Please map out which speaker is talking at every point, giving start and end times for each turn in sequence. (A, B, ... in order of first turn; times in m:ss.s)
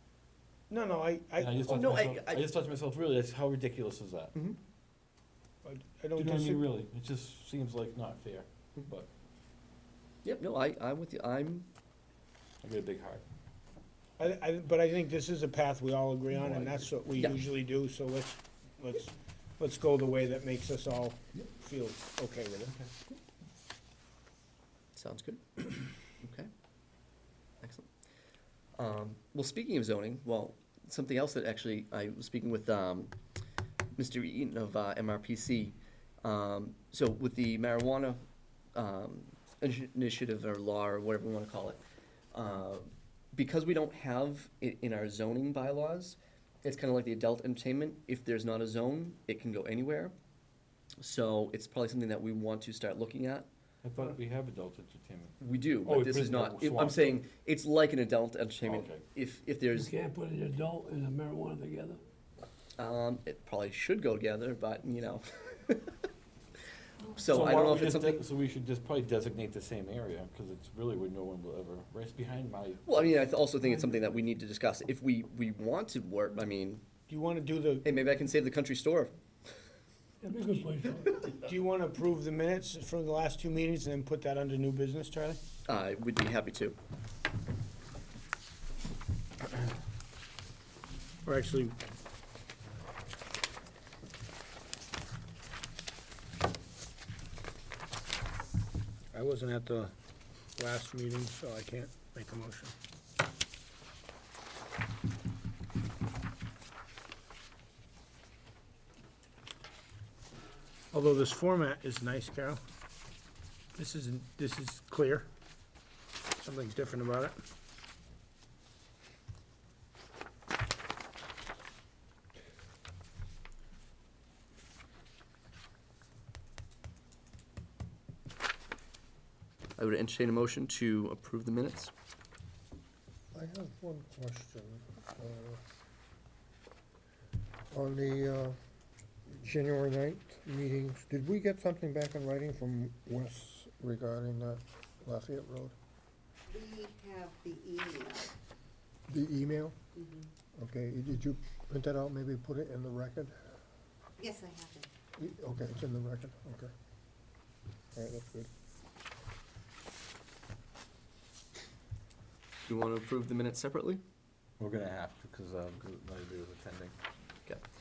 0:00.7-0:01.7 A
0:01.4-0:04.3 B
0:01.7-0:02.5 C
0:05.6-0:06.6 A
0:06.2-0:09.1 B
0:10.2-0:11.7 C
0:12.6-0:13.2 B
0:14.2-0:22.7 A
0:16.5-0:16.8 B
0:25.0-0:26.5 C
0:27.6-0:27.9 C
0:28.8-0:33.1 C
0:34.0-0:38.2 C
0:38.7-0:41.8 C
0:42.3-0:50.1 C
0:51.0-0:53.5 C
0:53.8-0:57.2 B
0:55.4-0:59.9 C
0:58.6-0:59.0 B
0:59.7-1:02.0 D
1:02.8-1:06.0 C
1:07.1-1:08.2 C
1:07.3-1:13.3 B
1:12.8-1:16.8 C
1:17.1-1:17.9 A
1:17.8-1:19.1 C
1:20.2-1:21.3 D
1:21.3-1:25.4 A
1:25.7-1:26.8 C
1:31.2-1:31.8 A
1:39.1-1:39.9 A
1:40.6-1:42.8 A
1:50.9-1:52.6 A
1:53.7-1:55.3 A
1:56.4-1:57.4 A
2:09.8-2:11.9 C
2:13.3-2:15.6 E
2:17.7-2:18.6 E
2:19.3-2:25.8 E
2:26.5-2:28.3 F
2:29.1-2:29.8 E
2:30.6-2:33.4 E
2:34.2-2:34.9 F
2:35.2-2:36.7 E
2:37.9-2:38.5 E
2:42.7-2:44.0 C
2:44.6-2:46.9 B